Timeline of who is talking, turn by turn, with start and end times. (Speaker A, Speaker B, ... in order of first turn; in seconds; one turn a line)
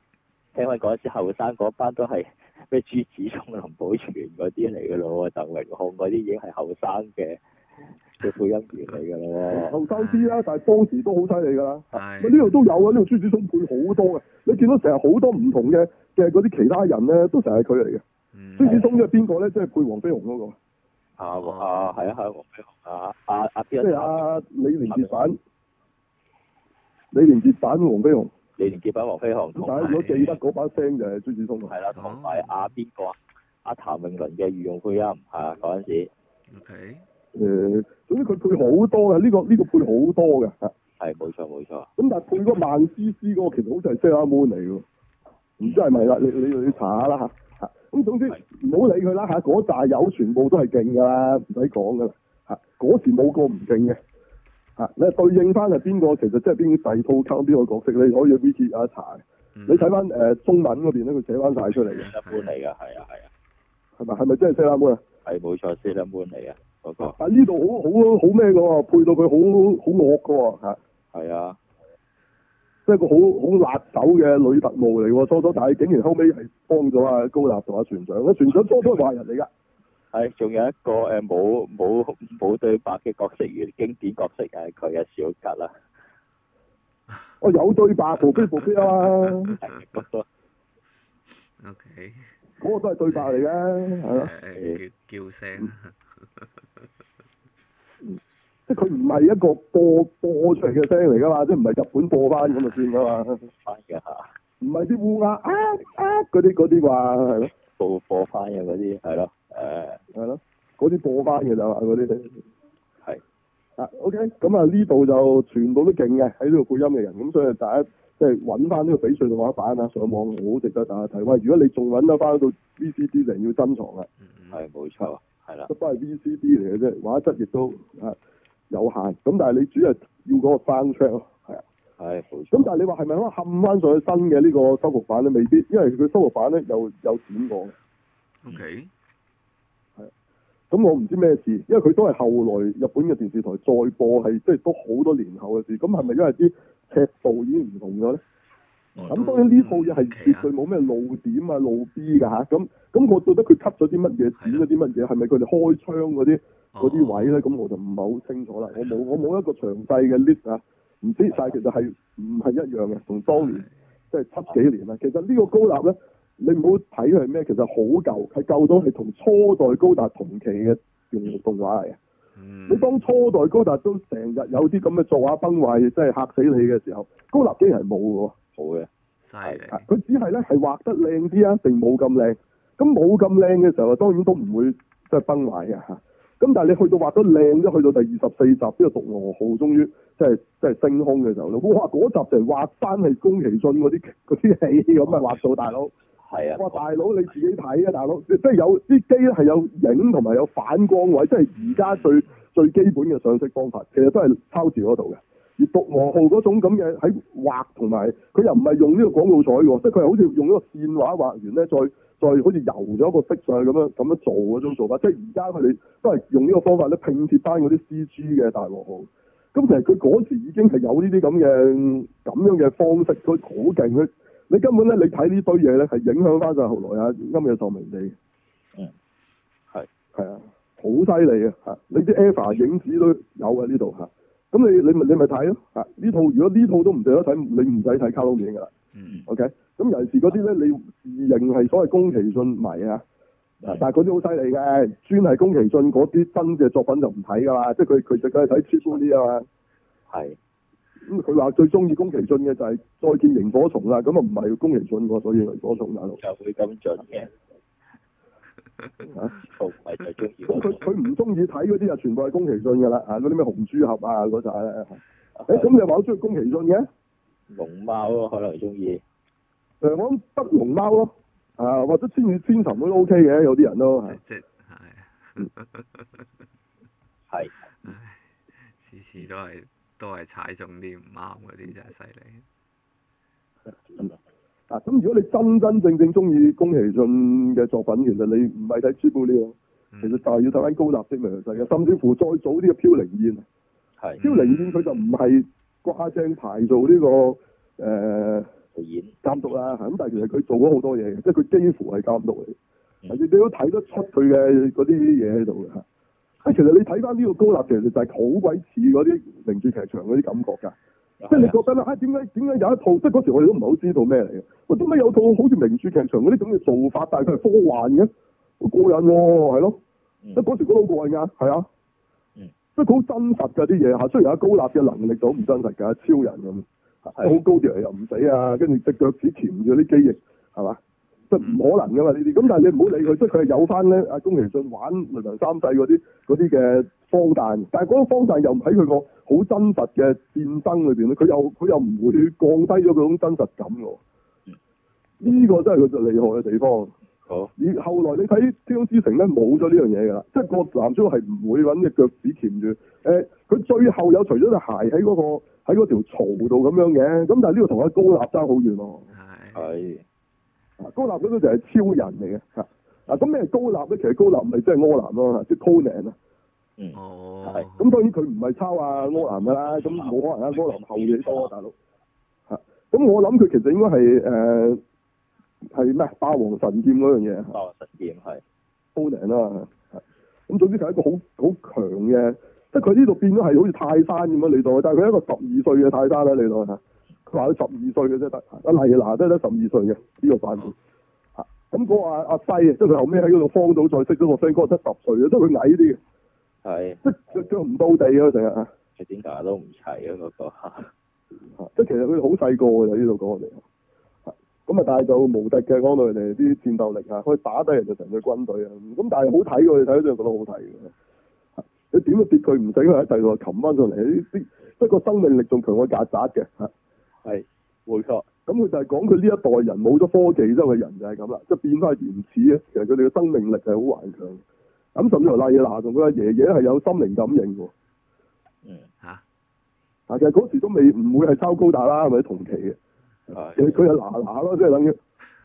Speaker A: 0.5-7.4
Speaker A: 8.2-9.8
Speaker B: 9.5-18.0
Speaker C: 9.9-10.3
Speaker C: 11.9-12.6
Speaker C: 18.3-18.9
Speaker B: 18.6-20.6
Speaker A: 21.2-24.2
Speaker C: 21.4-21.9
Speaker B: 23.8-25.4
Speaker B: 27.1-28.3
Speaker A: 28.6-30.3
Speaker B: 29.6-31.7
Speaker C: 29.8-30.3
Speaker A: 31.7-36.1
Speaker C: 31.9-32.5
Speaker C: 36.5-37.0
Speaker B: 37.3-40.7
Speaker A: 41.0-41.9
Speaker B: 42.0-44.8
Speaker B: 45.6-54.0
Speaker B: 54.8-62.1
Speaker C: 59.5-59.9
Speaker C: 61.8-62.5
Speaker A: 61.9-63.3
Speaker B: 64.0-65.0
Speaker A: 65.2-67.2
Speaker B: 67.2-70.8
Speaker A: 71.1-71.6
Speaker B: 72.8-79.5
Speaker A: 80.1-85.7
Speaker B: 87.4-89.6
Speaker A: 89.6-90.2
Speaker C: 91.6-92.2
Speaker B: 92.6-94.3
Speaker C: 94.1-96.5
Speaker A: 94.5-94.8
Speaker B: 98.7-103.4
Speaker A: 103.6-104.3
Speaker B: 104.6-107.5
Speaker A: 107.7-110.0
Speaker B: 110.1-112.4
Speaker B: 113.8-124.1
Speaker C: 124.2-124.6
Speaker A: 124.5-125.7
Speaker B: 125.7-128.2
Speaker B: 128.7-131.6
Speaker A: 132.0-132.7
Speaker B: 132.5-137.7
Speaker C: 138.4-138.9
Speaker B: 140.7-148.2
Speaker C: 149.0-150.5
Speaker B: 149.1-172.0
Speaker C: 154.4-154.7
Speaker C: 156.7-157.4
Speaker C: 163.3-163.7
Speaker C: 172.3-172.9
Speaker B: 172.7-178.3
Speaker A: 178.6-178.9
Speaker C: 179.2-179.8
Speaker B: 179.7-195.9
Speaker A: 196.2-196.8
Speaker B: 196.6-228.1
Speaker B: 230.1-238.7
Speaker C: 238.9-239.2
Speaker B: 239.3-243.0
Speaker B: 243.6-249.4
Speaker A: 250.1-250.4
Speaker B: 251.1-256.2
Speaker A: 256.2-257.3
Speaker B: 259.1-259.3
Speaker A: 259.4-260.8
Speaker B: 260.4-266.9
Speaker A: 265.4-265.7
Speaker A: 267.5-269.0
Speaker B: 269.8-274.2
Speaker C: 274.1-276.2
Speaker C: 277.8-282.4
Speaker B: 284.7-293.4
Speaker C: 289.9-290.2
Speaker C: 294.2-294.6
Speaker B: 294.2-298.5
Speaker A: 298.7-299.1
Speaker B: 299.2-302.6
Speaker B: 303.1-305.8
Speaker B: 306.4-310.7
Speaker A: 311.2-311.6
Speaker B: 311.3-319.8
Speaker B: 320.4-321.7
Speaker B: 322.8-330.8
Speaker B: 331.3-344.0
Speaker B: 345.2-346.9
Speaker B: 347.6-359.1
Speaker C: 359.1-359.7
Speaker A: 359.5-360.0
Speaker B: 360.8-366.1
Speaker A: 366.8-367.7
Speaker C: 366.9-367.8
Speaker B: 367.7-371.7
Speaker A: 369.7-371.5
Speaker B: 372.5-374.8
Speaker B: 375.7-377.6
Speaker A: 377.5-378.4
Speaker B: 378.9-390.7
Speaker B: 391.4-396.0
Speaker A: 396.6-397.0
Speaker B: 397.0-398.7
Speaker A: 399.0-400.9
Speaker B: 401.6-403.6
Speaker B: 404.2-410.9
Speaker B: 411.9-416.7
Speaker A: 417.2-418.2
Speaker B: 418.5-424.4
Speaker B: 424.9-427.7
Speaker B: 430.1-432.8
Speaker A: 433.3-433.8
Speaker B: 433.3-435.0